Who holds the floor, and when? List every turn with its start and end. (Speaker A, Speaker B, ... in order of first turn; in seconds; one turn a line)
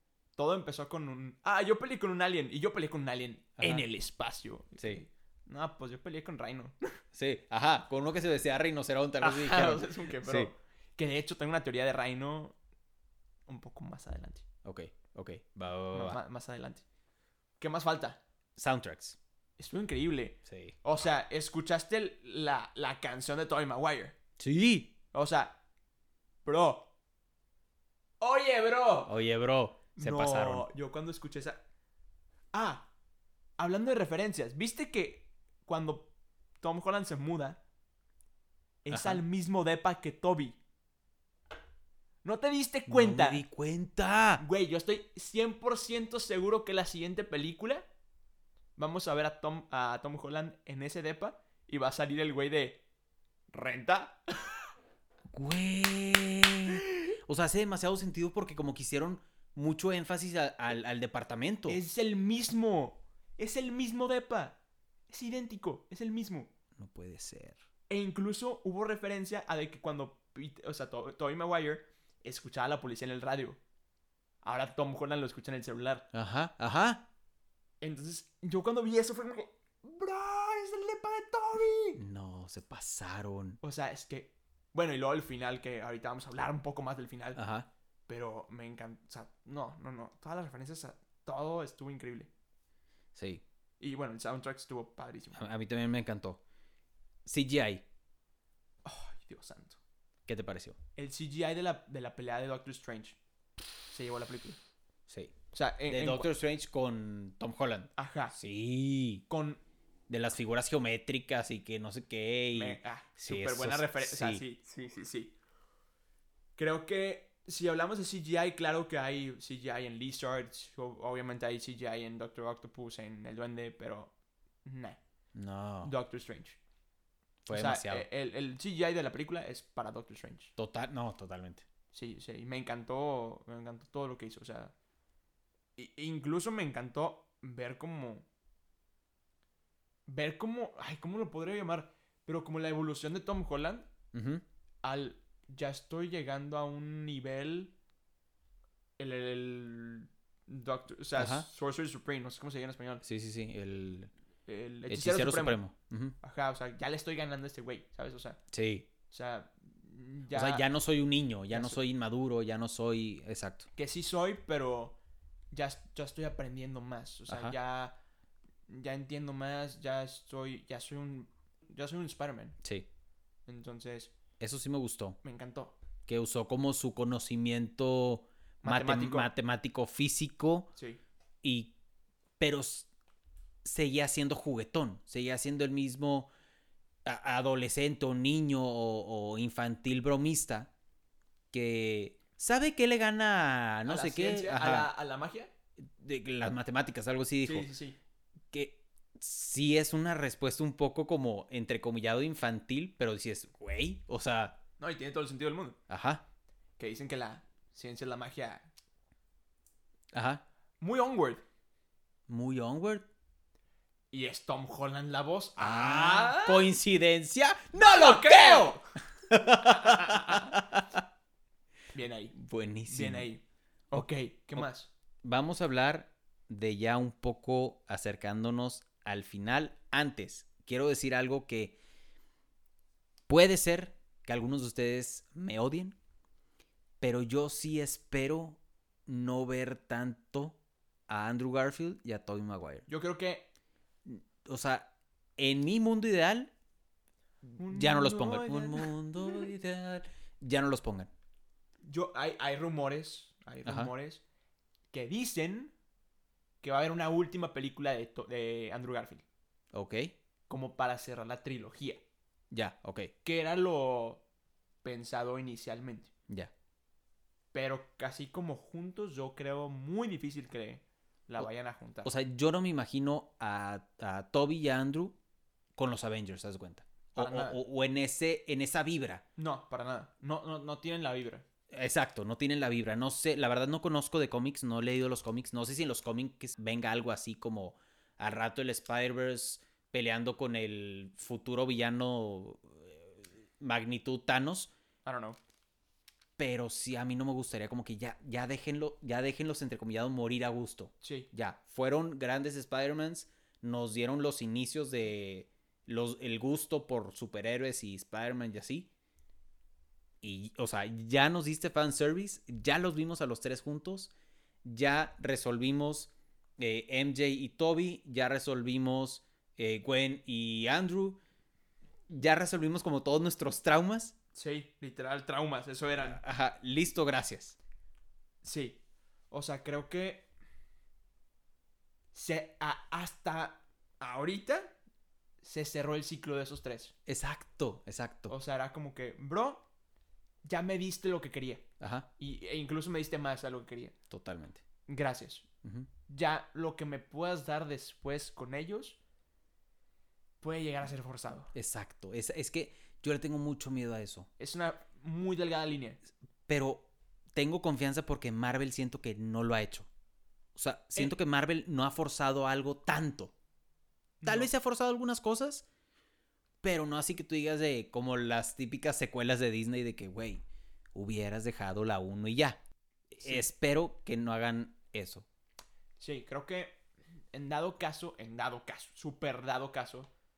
Speaker A: 0.3-6.9
Speaker B: 3.6-3.8
Speaker B: 4.8-5.0
Speaker B: 7.1-10.5
Speaker A: 9.2-12.5
Speaker A: 13.5-14.4
Speaker B: 14.6-16.2
Speaker A: 15.9-16.8
Speaker A: 17.6-18.2
Speaker B: 18.6-19.2
Speaker A: 19.6-24.1
Speaker B: 20.4-20.7
Speaker B: 24.4-24.9
Speaker A: 25.1-25.6
Speaker A: 26.4-26.9
Speaker A: 28.2-29.1
Speaker B: 29.1-30.7
Speaker A: 29.9-31.6
Speaker A: 32.5-32.9
Speaker A: 33.6-37.6
Speaker A: 38.8-40.6
Speaker B: 38.9-39.2
Speaker A: 42.2-43.4
Speaker B: 42.9-44.4
Speaker A: 44.4-47.9
Speaker A: 48.8-52.8
Speaker A: 53.5-54.2
Speaker B: 55.3-61.8
Speaker A: 61.7-64.6
Speaker A: 65.1-66.5
Speaker B: 66.8-67.6
Speaker A: 67.9-73.6
Speaker A: 74.4-76.0
Speaker B: 76.1-77.0
Speaker A: 77.8-82.0
Speaker B: 82.0-83.6
Speaker A: 83.6-87.4
Speaker B: 87.3-87.7
Speaker A: 88.1-92.3
Speaker B: 93.1-93.4
Speaker A: 93.8-95.4
Speaker B: 95.3-96.4
Speaker B: 97.2-97.8
Speaker A: 98.8-99.8
Speaker B: 100.3-100.8
Speaker A: 101.0-103.2
Speaker A: 103.9-104.6
Speaker B: 105.1-105.3
Speaker A: 105.5-106.3
Speaker B: 105.9-109.2
Speaker A: 108.0-108.3
Speaker A: 109.3-109.6
Speaker B: 110.1-114.4
Speaker A: 112.5-115.3
Speaker A: 116.6-124.1
Speaker A: 124.6-125.0
Speaker B: 125.3-125.9
Speaker A: 125.8-126.6
Speaker B: 127.4-128.1
Speaker A: 127.5-130.5
Speaker B: 130.6-131.6
Speaker A: 131.9-134.7
Speaker A: 135.8-138.2
Speaker A: 140.1-143.9
Speaker B: 144.1-144.4
Speaker A: 144.8-147.7
Speaker A: 149.0-153.0
Speaker B: 151.2-151.5
Speaker B: 153.0-154.1
Speaker A: 154.5-155.6
Speaker B: 154.9-156.2
Speaker A: 156.2-158.4
Speaker B: 158.5-158.9
Speaker A: 159.1-160.7
Speaker B: 160.3-163.7
Speaker A: 161.5-161.8
Speaker A: 163.8-165.0
Speaker A: 165.5-167.9
Speaker B: 167.3-167.6
Speaker A: 168.7-172.6
Speaker B: 172.6-172.9
Speaker A: 173.5-174.1
Speaker B: 174.4-175.2
Speaker A: 175.2-175.8
Speaker B: 176.1-180.7
Speaker A: 178.6-179.3
Speaker A: 180.8-181.0
Speaker B: 181.4-181.7
Speaker B: 182.4-182.9
Speaker B: 183.6-186.3
Speaker B: 187.0-190.7
Speaker B: 191.5-194.9
Speaker A: 193.9-195.5
Speaker B: 195.8-197.7
Speaker A: 197.4-198.0
Speaker B: 198.5-204.6
Speaker A: 204.8-205.8
Speaker B: 205.9-206.2
Speaker A: 206.8-208.7
Speaker B: 210.1-210.4
Speaker A: 210.8-211.4
Speaker B: 212.3-213.1
Speaker A: 214.1-216.7
Speaker B: 215.6-218.8
Speaker A: 217.8-218.8
Speaker B: 219.3-221.0
Speaker A: 219.6-220.5
Speaker A: 221.9-222.3
Speaker B: 222.3-223.3
Speaker A: 222.9-224.9
Speaker B: 225.2-231.8
Speaker B: 233.3-236.0
Speaker B: 237.0-240.6
Speaker B: 241.1-242.8
Speaker A: 242.9-243.5
Speaker B: 244.0-246.5
Speaker A: 247.5-249.5
Speaker B: 247.6-251.1
Speaker A: 251.8-254.2
Speaker B: 253.6-253.9
Speaker A: 254.9-255.7
Speaker A: 256.6-259.2
Speaker B: 259.7-260.1
Speaker A: 260.5-262.0
Speaker B: 262.5-263.1
Speaker A: 263.2-264.2
Speaker A: 264.8-266.1
Speaker A: 267.5-272.1
Speaker B: 272.0-275.1
Speaker B: 275.8-279.2
Speaker A: 277.1-277.6
Speaker A: 279.4-281.4
Speaker B: 281.7-294.7
Speaker A: 295.0-295.4
Speaker B: 296.4-308.9
Speaker A: 301.0-301.3
Speaker B: 310.2-314.1
Speaker B: 314.6-321.2
Speaker B: 322.1-324.1
Speaker A: 324.3-326.2
Speaker B: 326.0-327.6
Speaker A: 328.4-330.3
Speaker A: 332.1-334.7
Speaker A: 335.4-336.9
Speaker B: 337.1-338.3
Speaker A: 338.3-339.6
Speaker A: 340.4-341.6
Speaker B: 341.8-342.1
Speaker A: 342.2-343.9
Speaker B: 344.1-344.6
Speaker A: 344.9-345.5
Speaker A: 346.1-349.0
Speaker A: 350.4-351.5
Speaker B: 351.5-354.3
Speaker A: 354.4-356.0
Speaker B: 356.5-359.9
Speaker B: 360.5-363.3
Speaker A: 364.2-364.5
Speaker B: 364.2-365.6
Speaker B: 366.6-372.6
Speaker B: 373.1-375.2
Speaker A: 373.2-373.4
Speaker A: 376.0-376.8
Speaker A: 377.3-380.1